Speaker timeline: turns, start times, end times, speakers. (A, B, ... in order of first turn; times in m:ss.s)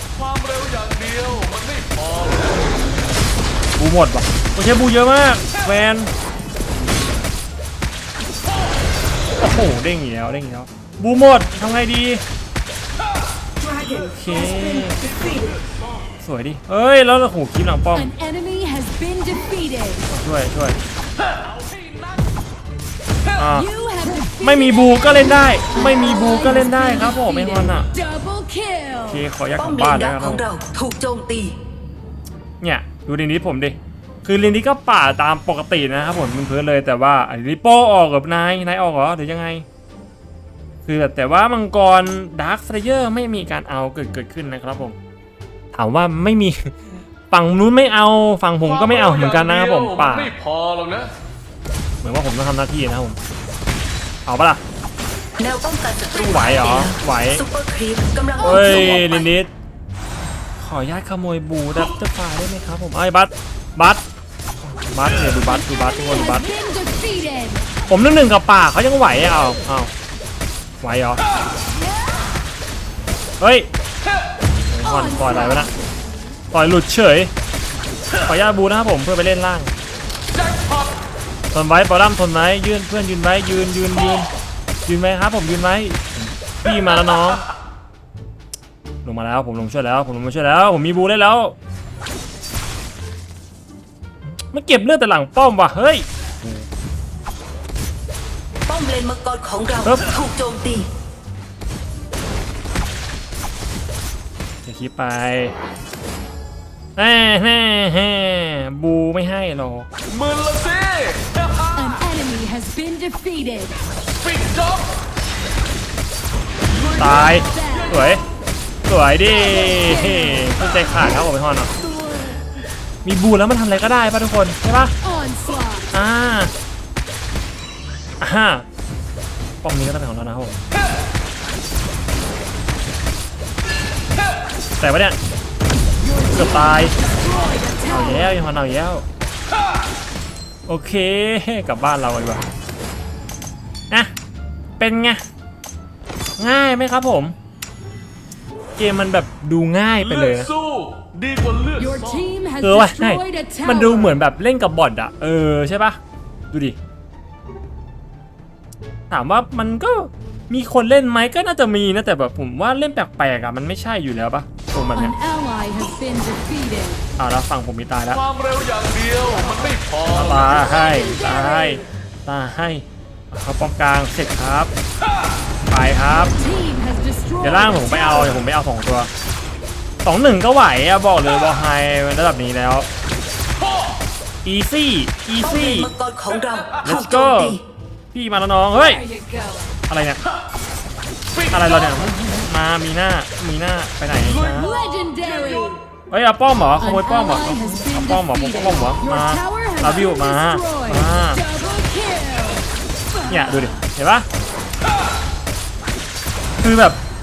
0:00.2-0:02.6 A
0:03.8-0:06.1 B
0:09.4-0:12.2 B
0:13.9-0:15.2 B
0:16.2-0:18.1 B
0:18.1-0:20.0 C
0:20.1-0:20.8 B
0:23.4-0:23.7 B
0:23.7-0:24.6 C
0:24.4-0:27.9 B
0:26.2-0:29.2 C
0:29.0-0:30.4 B
0:29.6-0:31.6 D
0:32.6-0:39.6 B
0:40.9-0:45.0 B
0:45.7-0:46.8 B
0:47.3-0:50.3 B
0:48.7-0:51.1 A
0:52.0-0:53.2 B
0:54.3-0:54.6 B
0:55.4-0:59.3 D
0:56.2-0:57.4 B
0:58.4-0:59.5 B
1:00.6-1:04.0 B
1:04.6-1:06.5 B
1:05.7-1:07.6 C
1:07.9-1:09.9 B
1:10.8-1:11.2 B
1:13.4-1:13.7 B
1:14.7-1:15.7 B
1:15.0-1:15.7 C
1:16.5-1:17.3 B
1:18.2-1:19.7 B
1:21.5-1:24.3 B
1:24.9-1:27.4 B
1:29.0-1:31.6 B
1:34.5-1:36.7 B
1:38.7-1:40.9 D
1:39.8-1:40.1 B
1:44.6-1:45.6 B
1:47.0-1:49.9 B
1:50.1-1:51.8 A
1:51.8-1:53.8 C
1:54.1-1:54.9 A
1:56.9-1:58.2 B
1:57.4-1:57.9 C
1:58.9-2:01.7 B
2:03.0-2:05.0 B
2:05.0-2:05.9 C
2:05.9-2:06.5 B
2:08.2-2:08.7 B
2:09.6-2:10.6 B
2:14.8-2:15.2 B
2:16.2-2:17.9 C
2:16.3-2:17.0 B
2:17.9-2:19.1 B
2:20.7-2:22.5 B
2:24.8-2:25.2 B
2:26.4-2:27.4 B
2:28.8-2:30.5 B
2:30.3-2:32.2 A
2:31.8-2:34.1 C
2:32.6-2:36.0 B
2:36.5-2:36.8 B
2:39.1-2:45.2 B
2:45.0-2:47.0 C
2:47.2-2:48.2 B
2:48.2-2:50.2 A
2:49.4-2:49.7 C
2:50.1-2:54.7 B
2:50.8-2:51.8 C
2:55.7-2:56.4 B
2:56.3-2:58.3 C
2:57.4-2:59.1 B
3:00.0-3:02.9 B
3:04.4-3:05.9 B
3:05.4-3:07.6 D
3:06.8-3:07.6 B
3:08.1-3:09.0 B
3:09.1-3:09.7 C
3:09.9-3:10.2 B
3:11.5-3:14.7 B
3:14.5-3:15.8 C
3:16.1-3:21.5 B
3:17.0-3:22.6 C
3:23.3-3:24.3 B
3:26.6-3:27.0 B